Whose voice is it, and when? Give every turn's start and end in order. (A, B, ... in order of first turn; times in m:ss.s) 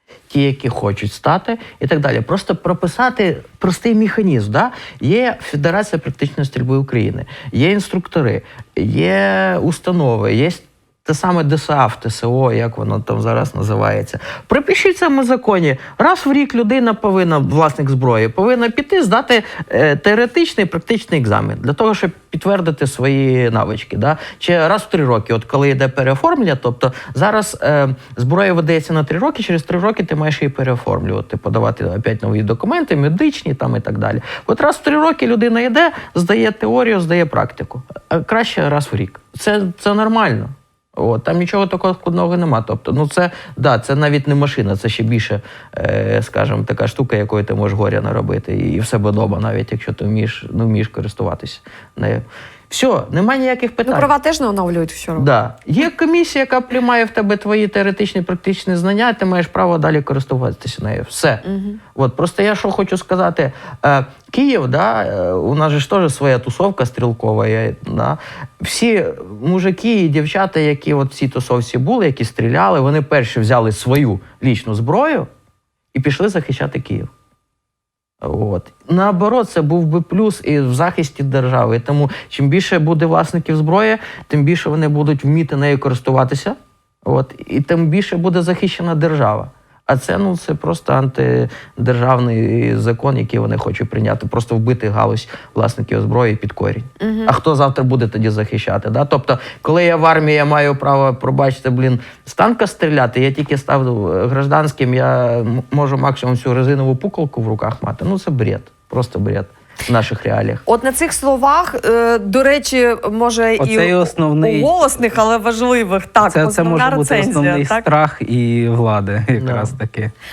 0:00.3-0:54.1 A
0:53.8-0:55.3 B
0:55.2-1:01.4 A
1:01.4-1:01.8 B
1:02.0-1:15.3 A
1:15.9-1:17.1 A
1:18.2-1:50.6 A
1:37.0-1:37.3 B
1:50.7-1:57.9 B
1:53.6-1:54.9 C
1:56.2-2:00.1 C
1:59.4-1:59.7 A